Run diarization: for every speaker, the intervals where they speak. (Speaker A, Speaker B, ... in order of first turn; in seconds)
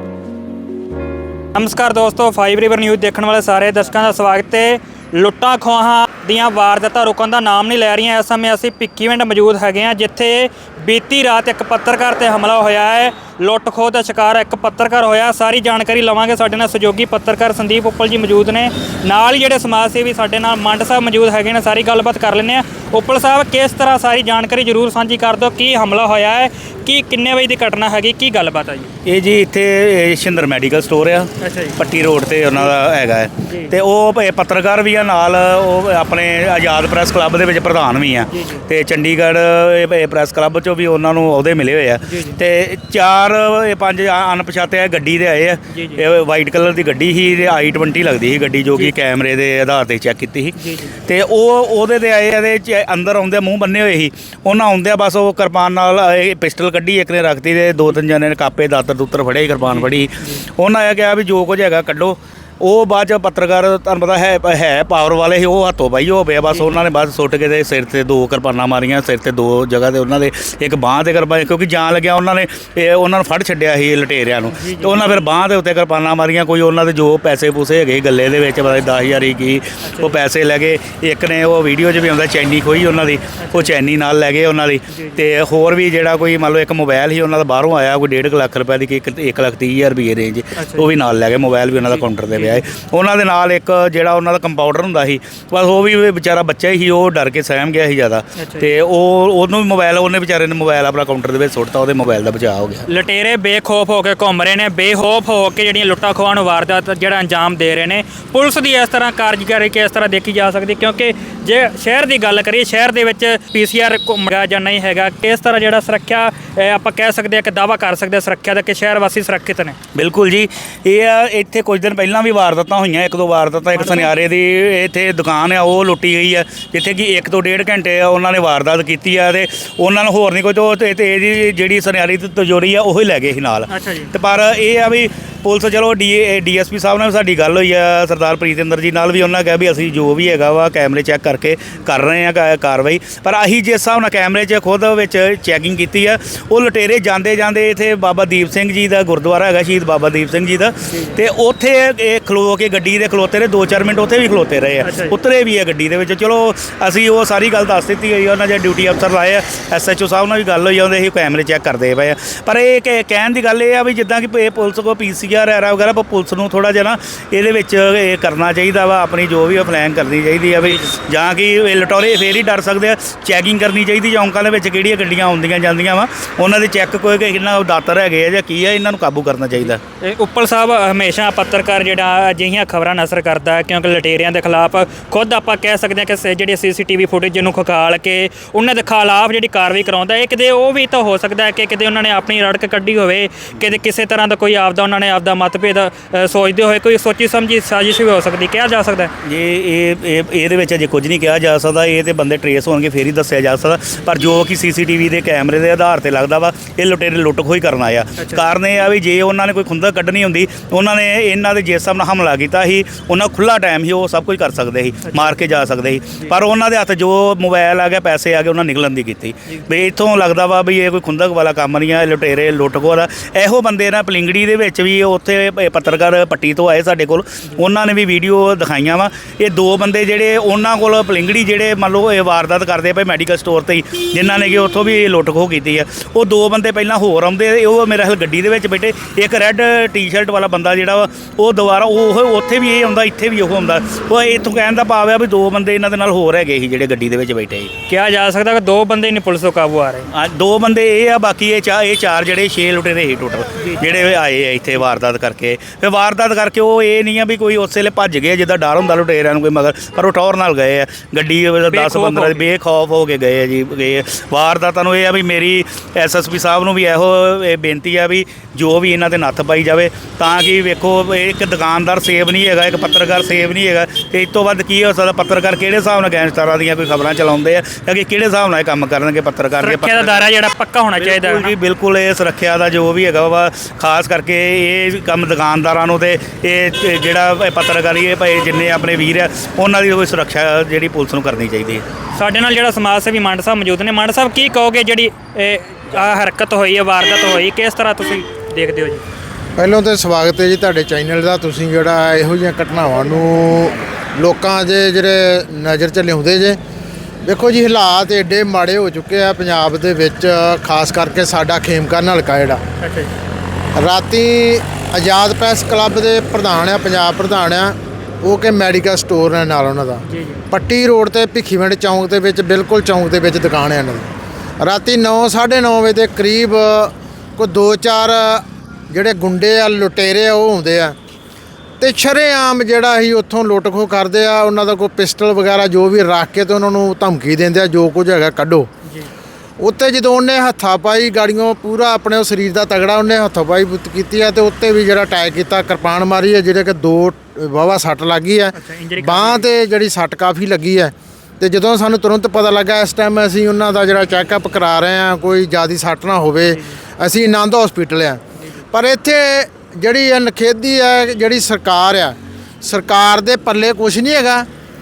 Speaker A: 1.5-28.9, 31.4-31.8, 33.4-33.7, 38.3-38.6, 42.0-42.4, 45.7-46.0, 50.5-51.0, 59.6-60.5, 66.5-66.8, 74.5-75.2, 79.8-80.2, 83.4-83.7, 84.9-85.2, 90.6-90.9, 91.8-92.7, 98.3-98.7, 102.9-119.8, 123.7-124.1, 133.7-134.1, 150.9-151.2, 154.8-155.2, 170.6-170.9, 179.6-199.1, 208.2-208.5, 215.1-215.4, 247.9-250.1, 253.6-254.0, 261.7-262.4, 279.6-281.5, 292.1-299.0, 312.8-313.1, 320.0-320.4, 338.8-339.1, 348.5-349.5, 356.5-356.8, 358.4-358.6
Speaker B: 29.0-102.9, 119.9-179.8, 199.2-247.7, 250.1-280.3, 281.0-291.9
Speaker C: 299.6-306.6, 307.2-312.6, 313.8-324.1, 324.6-330.9, 331.8-338.7, 339.6-358.2, 358.7-364.5